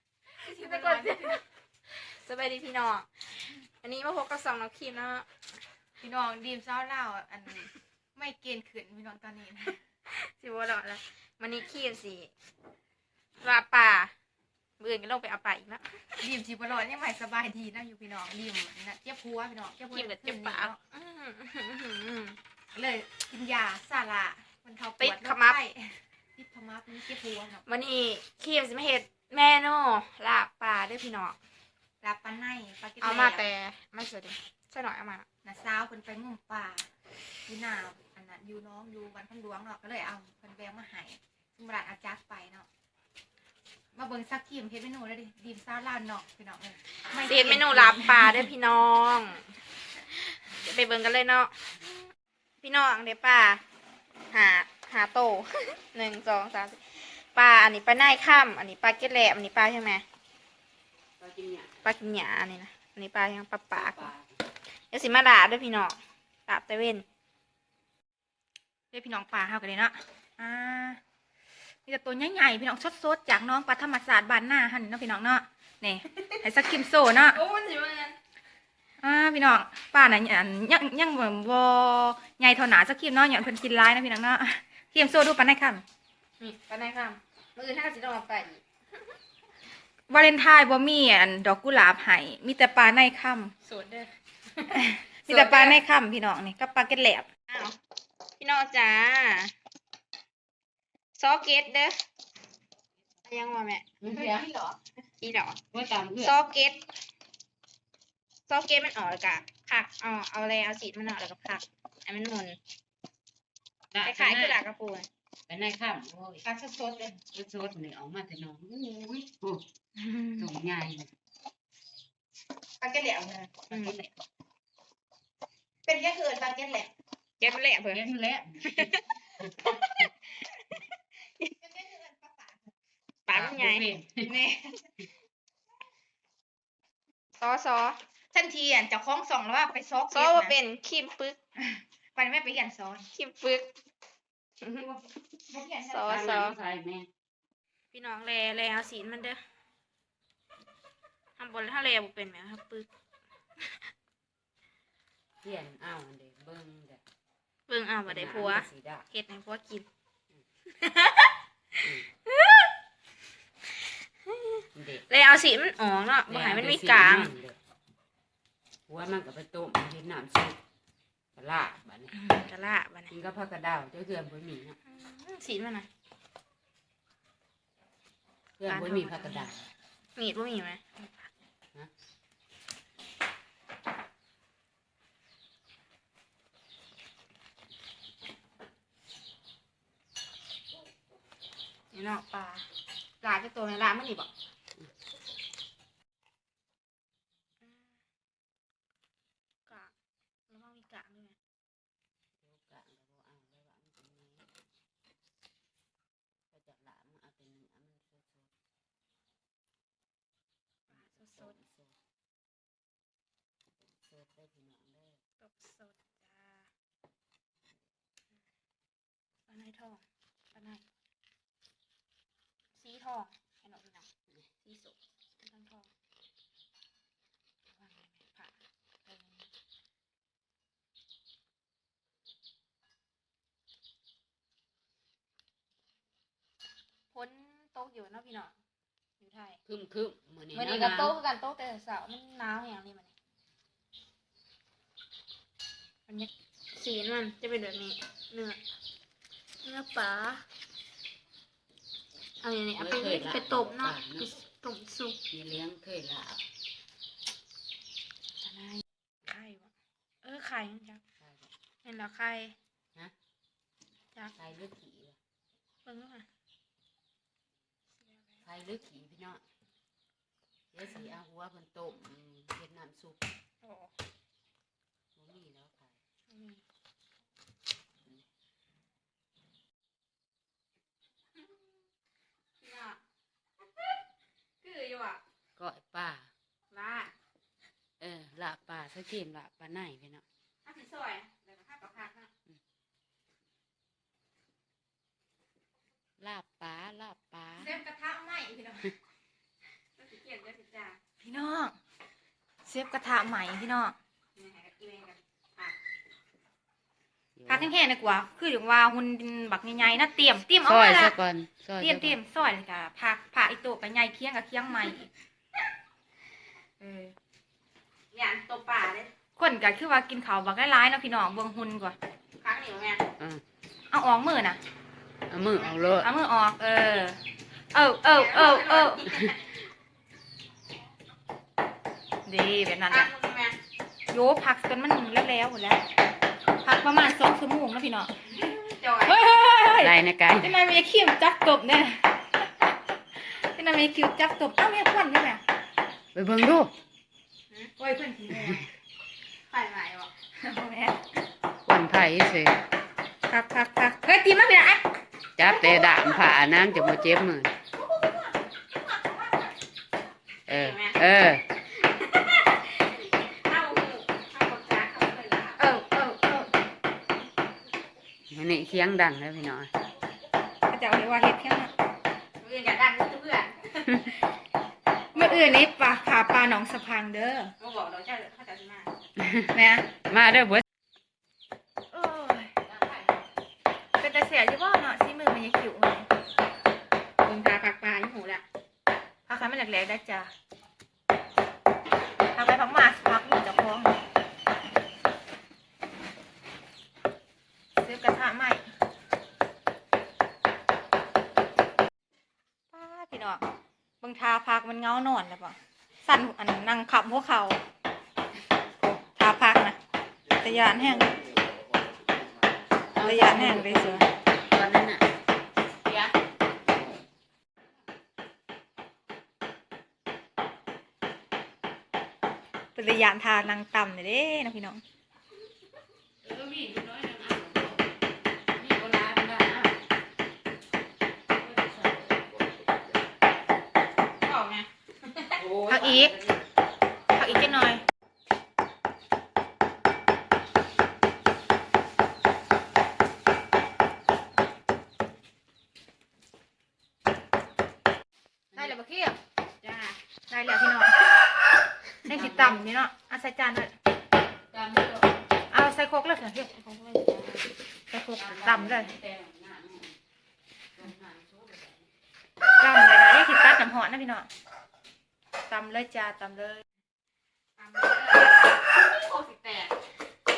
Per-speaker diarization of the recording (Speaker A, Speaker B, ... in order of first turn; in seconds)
Speaker A: 0.4-5.3, 10.1-12.3, 13.4-14.1, 14.8-16.2, 19.9-22.4, 25.0-25.6, 27.6-31.4, 33.0-35.3, 47.2-49.5, 50.1-52.0, 52.6-53.6, 54.3-60.0, 61.8-64.1, 64.9-67.0, 77.3-78.2, 86.4-88.6, 93.6-95.8, 97.5-97.8, 98.4-99.5, 101.2-102.0, 103.2-103.8, 105.2-105.6, 106.2-106.8, 108.5-112.6, 114.0-115.1, 127.4-128.0, 128.6-130.1, 133.2-133.9, 137.4-138.0, 140.1-141.4, 143.1-143.7, 144.6-144.9, 145.8-146.5, 147.9-149.4, 151.4-152.9, 157.7-159.9, 160.8-162.7, 164.2-167.3, 172.3-173.1, 174.8-175.9, 180.2-181.0, 191.9-192.7, 193.2-194.3, 197.6-198.0, 199.7-199.9, 200.5-201.3, 210.9-211.5, 215.4-216.6, 219.5-220.0, 220.5-220.8, 222.7-224.1, 224.6-225.9, 227.7-228.5, 229.1-229.4, 237.1-238.5, 239.2-239.6, 240.5-243.1, 246.1-248.6, 249.6-250.4, 252.4-255.2, 259.2-259.7, 260.2-261.0, 261.8-262.6, 265.9-266.2, 273.6-273.9, 276.3-276.6, 282.6-283.0, 284.6-285.2, 286.7-287.1, 290.6-292.3, 300.0-301.0, 304.4-305.8, 318.1-319.1, 322.4-323.0, 328.1-329.5, 332.9-333.6, 338.3-339.2, 349.5-350.1, 355.4-356.1, 360.5-366.4, 372.4-374.2, 375.1-375.5, 377.6-378.9, 387.2-388.4, 434.2-435.4, 449.6-450.0, 456.4-457.5, 467.6-469.7
Speaker B: 0.4-1.4, 6.0-9.8, 16.2-20.8, 22.7-27.6, 32.0-33.5, 35.5-36.9, 37.5-42.7, 44.0-48.5, 68.9-71.0, 71.9-77.4, 79.0-85.8, 90.1-93.5, 94.7-97.3, 116.4-117.2, 120.0-120.5, 122.8-123.9, 125.9-126.9, 131.6-132.6, 134.2-134.8, 138.3-140.5, 141.6-143.1, 144.6-146.5, 178.7-179.5, 297.6-298.9, 301.2-301.8, 302.6-303.9, 307.5-311.2, 311.8-315.1, 316.8-317.1, 319.4-322.0, 323.9-324.6, 326.0-327.2, 327.7-329.1, 332.2-333.1, 334.1-335.8, 336.6-338.1, 339.1-345.4, 347.8-348.7, 350.4-351.0, 353.3-354.8, 366.2-366.5, 370.7-371.7, 375.1-377.5, 379.5-379.9, 381.9-382.5, 384.0-386.1, 389.3-390.3, 392.4-394.0, 397.8-398.6, 402.7-403.4, 404.0-407.6, 408.8-409.8, 410.4-411.2, 413.0-414.1, 422.8-424.8, 435.7-436.1, 437.1-437.8, 448.5-449.2, 450.3-451.1, 452.0-453.7, 455.5-456.5, 457.9-458.9, 462.6-464.3, 465.5-466.6
Speaker C: 61.2-61.9, 63.7-64.3, 104.0-104.7, 105.7-106.3, 113.9-114.6, 115.5-116.4, 117.3-119.6, 120.4-121.1, 123.7-124.1, 127.9-129.0, 133.3-134.3, 146.0-147.1, 155.4-157.0, 158.1-159.1, 164.7-165.0, 166.3-167.6, 168.9-170.6, 171.3-172.2, 173.1-174.8, 178.6-179.7, 202.4-204.5, 206.5-208.5, 210.9-211.9, 213.8-215.2, 239.6-241.2, 252.8-254.3, 255.3-256.5, 258.4-258.8, 261.2-261.5, 264.4-265.2, 268.4-269.4, 270.7-273.3, 275.2-276.0, 285.6-286.3, 288.0-290.2, 296.2-297.8, 307.4-307.8, 310.6-312.2, 325.3-326.1, 339.7-340.6, 346.1-346.7, 351.7-352.6, 355.4-357.5, 360.5-361.4, 368.3-369.7, 379.2-379.5, 380.1-380.6, 382.7-383.1, 412.9-415.1, 415.9-416.1, 426.2-427.9, 428.5-429.8, 431.3-432.2, 435.4-436.4, 452.1-452.7, 454.5-455.2, 458.2-460.0, 460.8-461.9